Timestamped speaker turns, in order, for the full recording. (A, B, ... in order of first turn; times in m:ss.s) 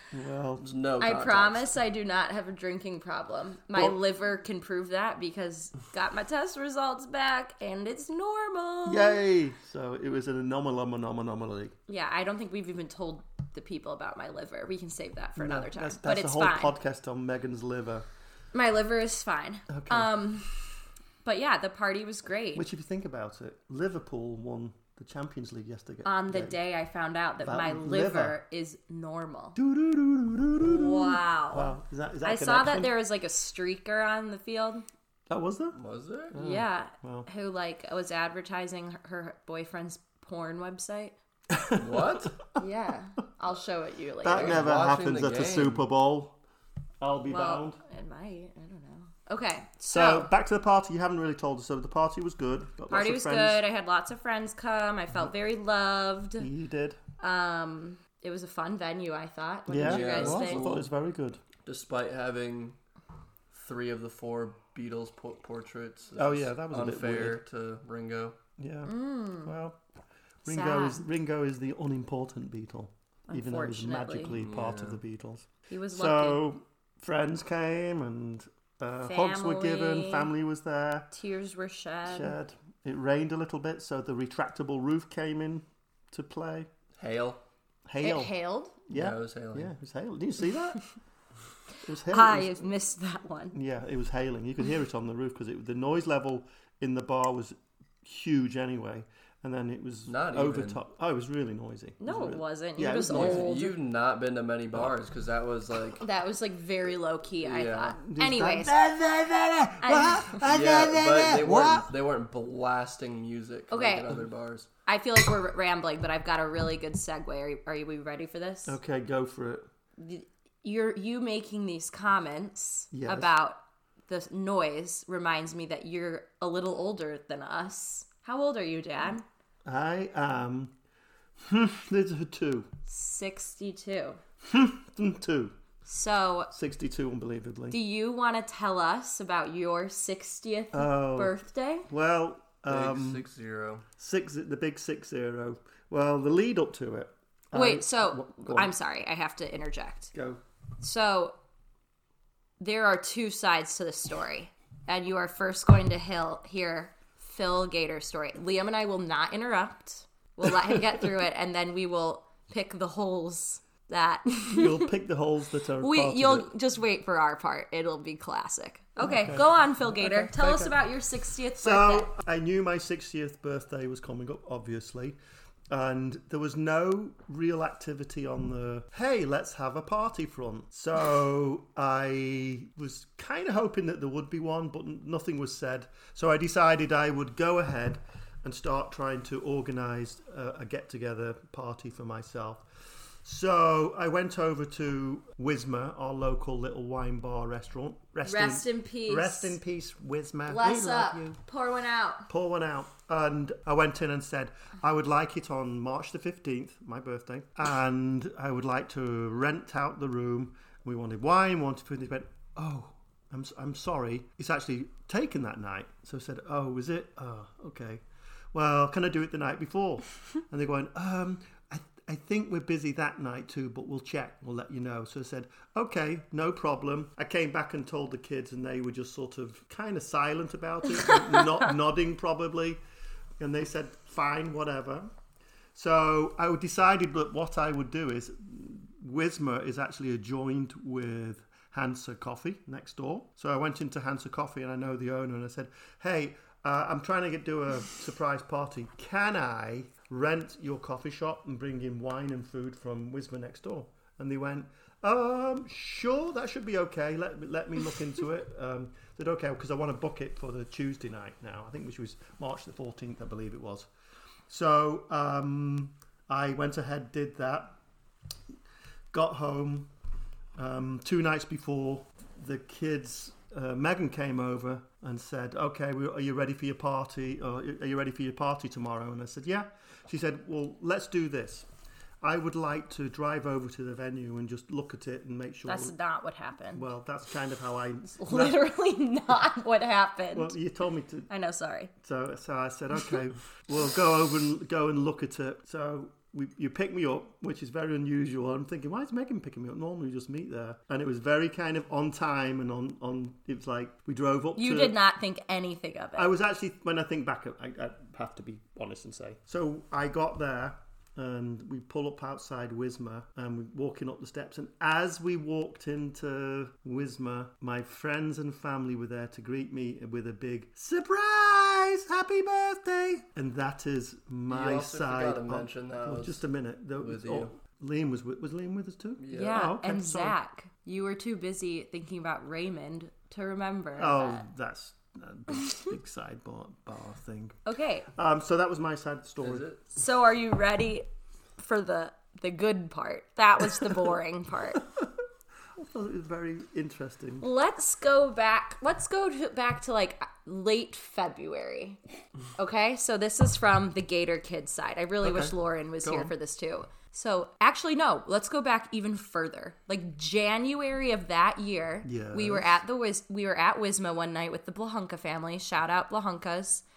0:00.1-0:00.7 A
0:00.6-0:01.8 B
0:01.0-0:09.2 C
0:08.9-0:11.7 A
0:11.9-0:16.7 C
0:15.4-0:18.1 A
0:18.5-0:20.6 C
0:19.7-0:20.1 A
0:21.2-0:22.7 C
0:22.6-0:26.6 A
0:26.0-0:29.6 C
0:27.4-0:28.4 A
0:29.6-0:32.9 A
0:30.6-0:34.8 C
0:35.3-0:35.8 A
0:35.8-0:36.3 B
0:36.3-0:37.3 A
0:36.4-0:41.2 C
0:41.5-0:42.4 A
0:41.8-0:42.3 B
0:42.6-0:44.6 C
0:44.2-0:46.4 A
0:44.3-0:45.9 B
0:47.0-0:47.8 A
0:47.3-0:50.3 C
0:49.9-0:53.6 A
0:52.9-0:56.5 C
0:56.4-0:57.0 A
0:57.2-1:00.8 C
0:59.7-1:01.4 A
0:59.8-1:00.9 B
1:01.6-1:02.8 B
1:03.5-1:08.4 B
1:06.2-1:07.4 A
1:08.6-1:09.8 A
1:08.9-1:09.5 C
1:10.4-1:21.1 A
1:10.5-1:11.0 C
1:13.3-1:14.3 C
1:14.3-1:15.0 B
1:15.7-1:16.4 C
1:19.0-1:20.3 C
1:21.1-1:22.4 C
1:22.1-1:26.7 A
1:27.0-1:27.4 B
1:27.9-1:28.3 A
1:28.0-1:28.8 C
1:28.9-1:30.8 A
1:28.9-1:29.7 B
1:31.8-1:32.6 A
1:32.1-1:33.6 C
1:33.5-1:43.5 A
1:40.1-1:40.8 B
1:42.0-1:43.8 C
1:43.1-1:46.0 B
1:46.0-1:48.8 C
1:47.4-1:48.0 B
1:48.1-1:51.9 A
1:49.8-1:50.4 C
1:50.5-1:54.7 B
1:53.7-1:54.2 C
1:54.9-1:58.8 C
1:58.7-1:59.7 A
2:00.0-2:09.2 C
2:02.9-2:03.3 A
2:09.7-2:10.7 A
2:11.4-2:12.7 A
2:12.9-2:14.2 C
2:14.4-2:15.6 A
2:15.9-2:16.5 C
2:16.5-2:17.8 A
2:17.7-2:21.9 C
2:20.7-2:21.4 A
2:21.9-2:23.2 A
2:22.7-2:23.9 B
2:24.0-2:28.7 A
2:27.5-2:30.1 C
2:30.1-2:30.4 A
2:30.8-2:31.3 C
2:32.6-2:44.9 C
2:44.5-2:46.5 A
2:45.8-2:52.1 C
2:49.0-2:50.8 A
2:51.6-2:55.2 A
2:55.7-3:12.6 A
3:13.2-3:21.4 A
3:18.2-3:19.6 C
3:20.5-3:22.3 C
3:22.3-3:52.8 A
3:50.9-3:51.6 C
3:53.4-3:55.1 A
3:55.8-4:23.9 A
4:24.5-4:27.8 A
4:29.1-4:29.9 A
4:30.6-4:41.7 A
4:42.2-4:46.0 A
4:45.7-4:46.9 C
4:46.7-4:48.6 A
4:48.2-4:50.6 C
4:50.3-4:51.3 A
4:51.3-4:51.9 C
4:52.0-5:05.0 A
5:04.6-5:06.3 C
5:06.2-5:30.4 A
5:24.5-5:26.4 B
5:27.0-5:27.5 B
5:29.2-5:29.6 B
5:29.3-5:34.5 C
5:34.0-5:37.6 A
5:37.6-5:38.1 C
5:38.1-5:39.7 A
5:39.4-5:39.8 B
5:39.9-5:41.1 C
5:41.6-5:44.8 C
5:45.8-5:47.5 A
5:47.4-5:52.0 C
5:52.6-6:06.8 C
5:55.2-5:56.3 A
6:02.0-6:02.8 A